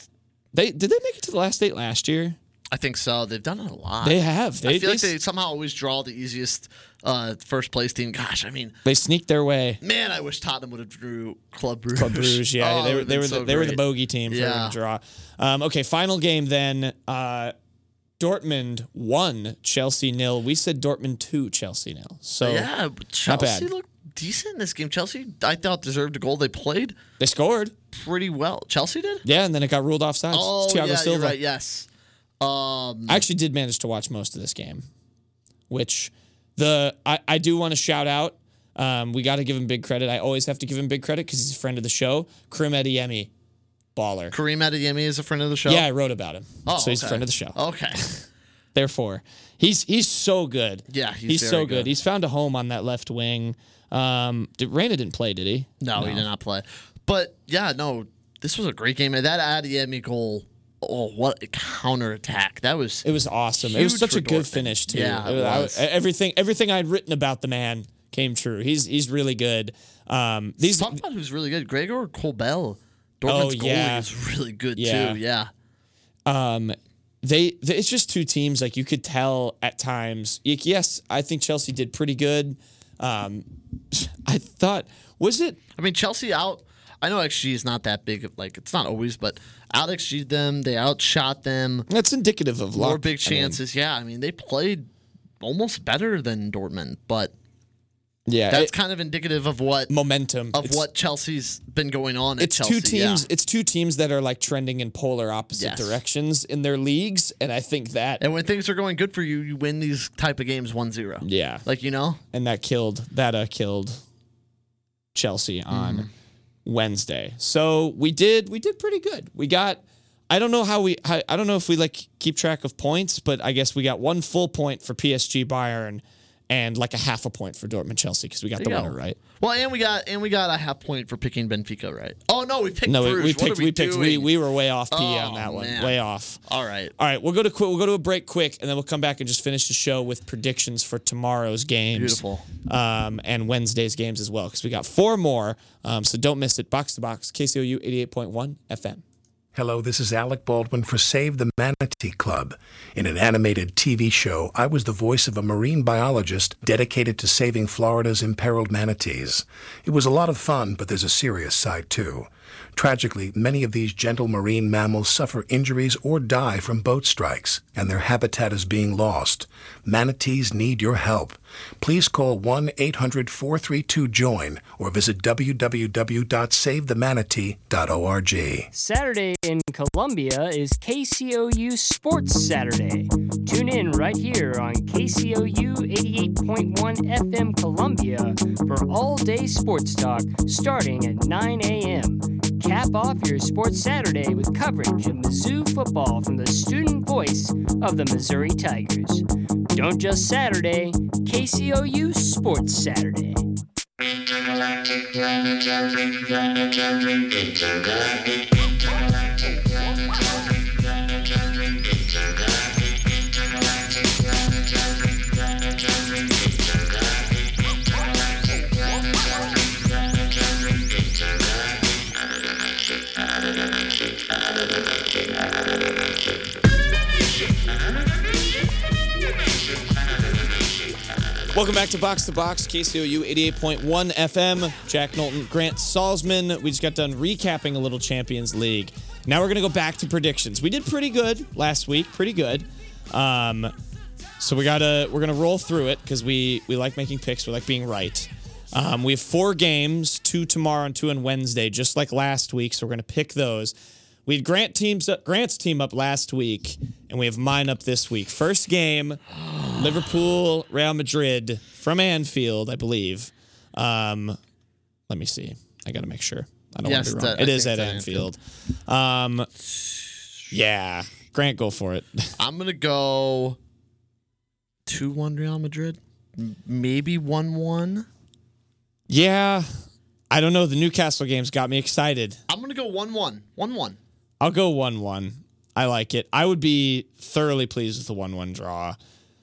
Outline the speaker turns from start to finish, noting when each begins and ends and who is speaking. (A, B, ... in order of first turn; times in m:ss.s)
0:00.5-0:02.4 A
0:02.7-0:08.8 B
0:04.0-0:05.1 A
0:08.8-0:09.8 A
0:09.8-0:14.8 B
0:12.0-0:17.5 A
0:18.2-0:22.7 A
0:22.4-0:27.0 B
0:23.2-0:23.7 A
0:27.2-0:27.7 A
0:27.9-0:29.2 B
0:29.2-0:31.4 A
0:30.3-0:31.9 B
0:32.4-0:33.2 B
0:33.1-0:34.8 A
0:35.7-0:43.3 A
0:43.9-0:44.3 A
0:44.3-0:45.8 B
0:45.6-0:48.2 A
0:46.6-0:48.0 B
0:48.7-0:56.3 A
0:50.9-0:51.9 B
0:55.8-1:03.0 B
1:03.0-1:11.0 A
1:03.6-1:05.8 B
1:10.6-1:15.5 B
1:13.2-1:14.1 A
1:14.8-1:15.2 A
1:16.2-1:25.6 A
1:25.8-1:31.9 B
1:31.9-1:33.6 A
1:32.7-1:34.8 B
1:35.4-1:37.3 B
1:38.3-1:38.7 A
1:38.5-1:39.9 B
1:39.9-1:40.8 A
1:40.5-1:43.3 B
1:42.4-1:48.2 A
1:45.5-1:46.0 B
1:48.2-1:52.2 B
1:51.2-1:51.6 A
1:52.3-1:54.0 A
1:55.1-1:56.1 A
1:55.7-1:56.1 B
1:56.6-2:09.2 A
2:08.6-2:14.3 B
2:12.8-2:16.4 A
2:14.9-2:16.9 B
2:17.0-2:29.0 A
2:21.9-2:22.4 B
2:29.5-2:58.7 C
2:58.7-3:23.4 D
3:51.5-4:03.7 A
4:04.4-4:13.7 A
4:14.2-4:19.2 A
4:19.3-4:20.1 B
4:19.8-4:24.4 A
4:25.1-4:29.5 A
4:26.8-4:28.3 B
4:30.5-4:32.3 A
4:32.4-4:33.6 B
4:34.8-4:38.0 B
4:39.1-4:39.7 A
4:40.3-4:42.4 A
4:42.5-4:44.0 B
4:44.4-4:49.0 A